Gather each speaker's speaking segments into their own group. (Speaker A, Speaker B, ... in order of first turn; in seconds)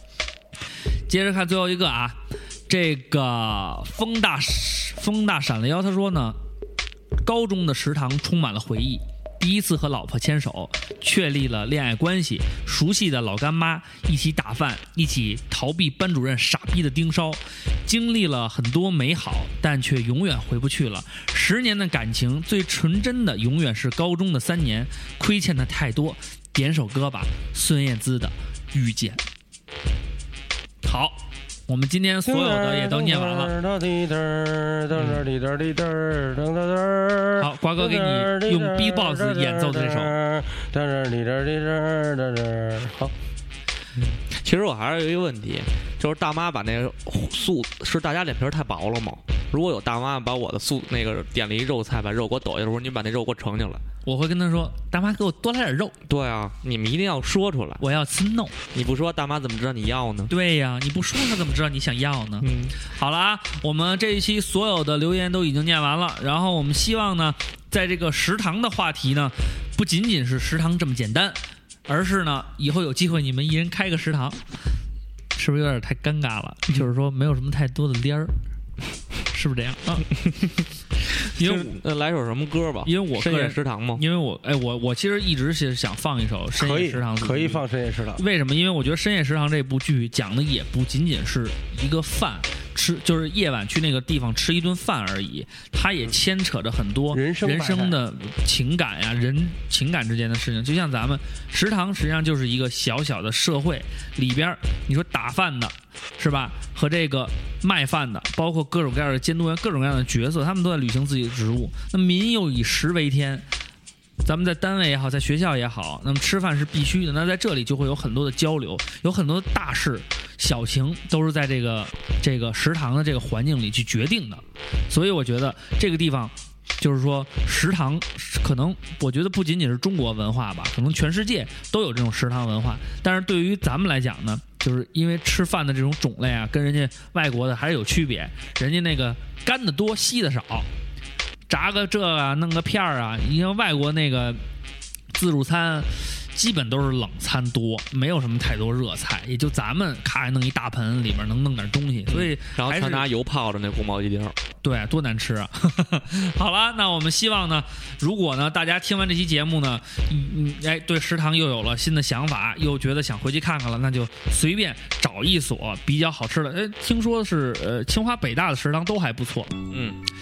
Speaker A: 1.1-6.4, 7.2-29.2, 30.8-33.5, 37.4-40.1, 54.0-56.0, 57.8-58.5, 60.3-74.4, 75.3-78.3, 79.3-80.1, 81.3-81.8, 82.8-87.6, 88.2-113.5, 114.2-140.7, 141.5-144.4, 145.1-153.0, 154.6-169.7
Speaker B: 32.2-43.1, 86.6-88.2, 97.1-98.0
Speaker C: 44.0-53.8, 56.1-57.8, 58.7-60.3, 62.4-62.7, 80.2-80.6, 81.3-84.0, 152.1-154.3, 169.7-170.0